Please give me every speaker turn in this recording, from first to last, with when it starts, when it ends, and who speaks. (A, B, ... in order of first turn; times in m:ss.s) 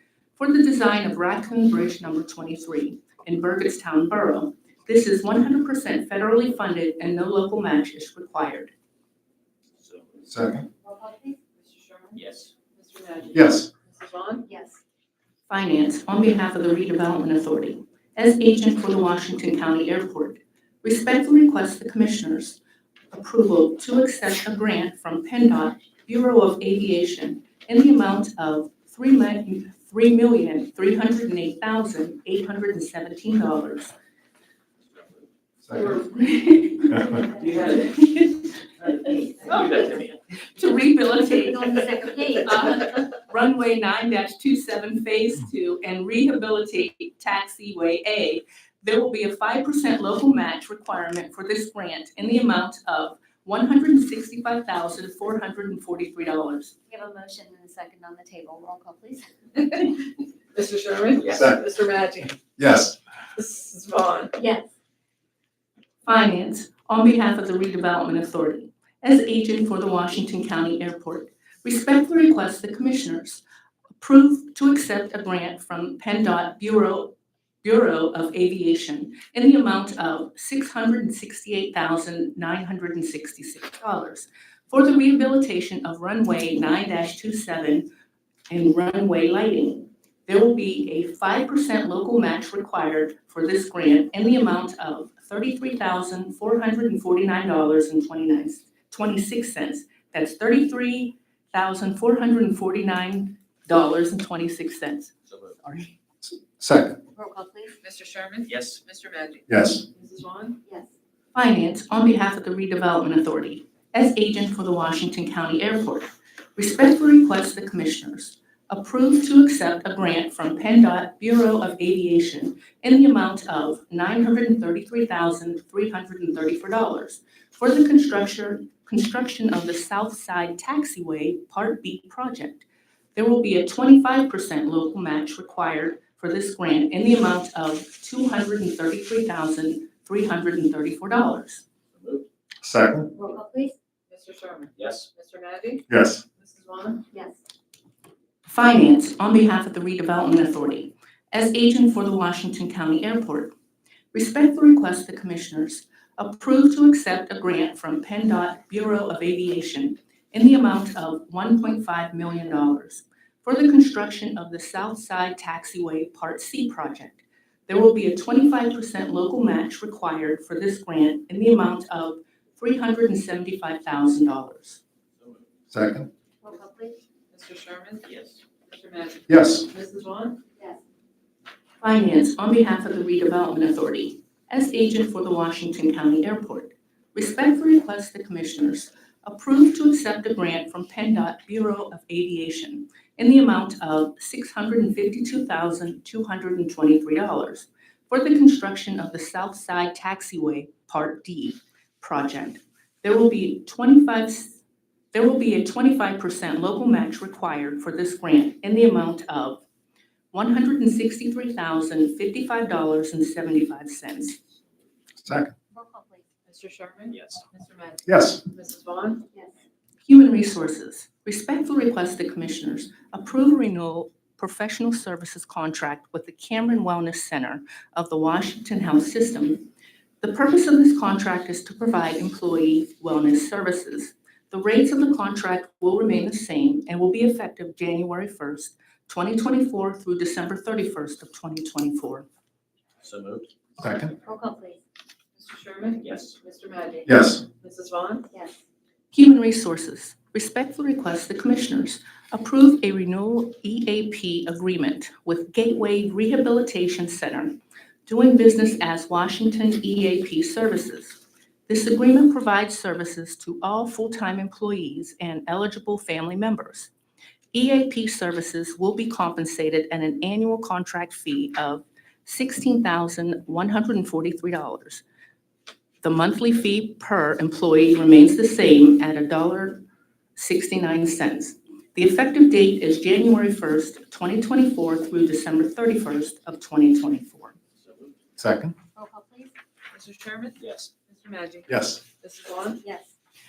0:00.4-0:08.7 A
0:09.8-0:10.1 B
0:10.3-0:10.7 C
0:10.8-0:11.4 D
0:11.6-0:14.5 E
0:12.1-0:12.5 B
0:13.3-0:13.7 C
0:14.4-0:14.8 D
0:15.5-0:22.6 A
0:23.1-0:33.9 A
0:35.6-0:36.0 C
0:35.7-0:36.2 E
0:36.1-0:37.0 A
0:36.9-0:37.8 E
0:37.2-0:37.6 D
0:37.4-0:37.8 B
0:37.6-0:38.4 A
0:39.4-0:39.7 D
0:39.4-0:40.0 A
0:39.4-0:40.1 B
0:40.6-0:56.7 A
0:41.3-0:42.8 D
0:56.9-0:59.6 D
1:00.5-1:02.4 E
1:01.3-1:01.6 C
1:02.6-1:03.0 C
1:03.4-1:04.4 E
1:04.4-1:04.7 D
1:06.0-1:13.4 A
1:14.0-1:27.9 A
1:28.5-1:46.0 A
1:45.3-1:45.5 B
1:46.2-1:47.0 C
1:47.1-1:47.8 D
1:47.8-1:50.6 E
1:48.5-1:48.8 B
1:49.5-1:49.8 C
1:50.6-1:50.9 D
1:51.3-2:21.6 A
2:21.9-2:22.2 B
2:22.6-2:23.1 C
2:23.1-2:23.7 D
2:24.1-2:25.8 E
2:24.8-2:25.1 B
2:25.9-2:26.2 C
2:26.4-2:27.0 E
2:27.1-2:27.4 D
2:28.5-2:33.5 A
2:34.1-2:54.8 A
2:55.2-2:55.4 B
2:55.7-2:56.1 C
2:56.4-2:57.0 D
2:57.3-2:58.1 E
2:58.0-2:58.4 B
2:58.6-3:00.4 E
2:59.3-2:59.6 C
3:01.8-3:24.6 A
3:25.1-3:29.6 A
3:30.3-3:34.4 A
3:35.2-3:35.5 C
3:35.7-3:36.2 D
3:36.5-3:39.2 E
3:37.1-3:37.4 B
3:38.0-3:38.4 C
3:39.3-3:39.6 D
3:40.0-3:49.7 A
3:50.2-4:02.3 A
4:03.0-4:03.5 B
4:03.8-4:04.1 C
4:04.2-4:04.8 D
4:05.4-4:08.3 E
4:06.0-4:06.4 B
4:07.1-4:07.4 C
4:08.3-4:08.6 D
4:09.1-4:26.9 A
4:27.5-4:35.0 A
4:36.0-4:39.8 A
4:40.4-4:47.5 A
4:47.8-4:48.1 B
4:48.4-4:48.7 C
4:49.0-4:49.5 D
4:49.9-4:52.8 E
4:50.6-4:50.9 B
4:51.7-4:52.0 C
4:52.8-4:53.1 D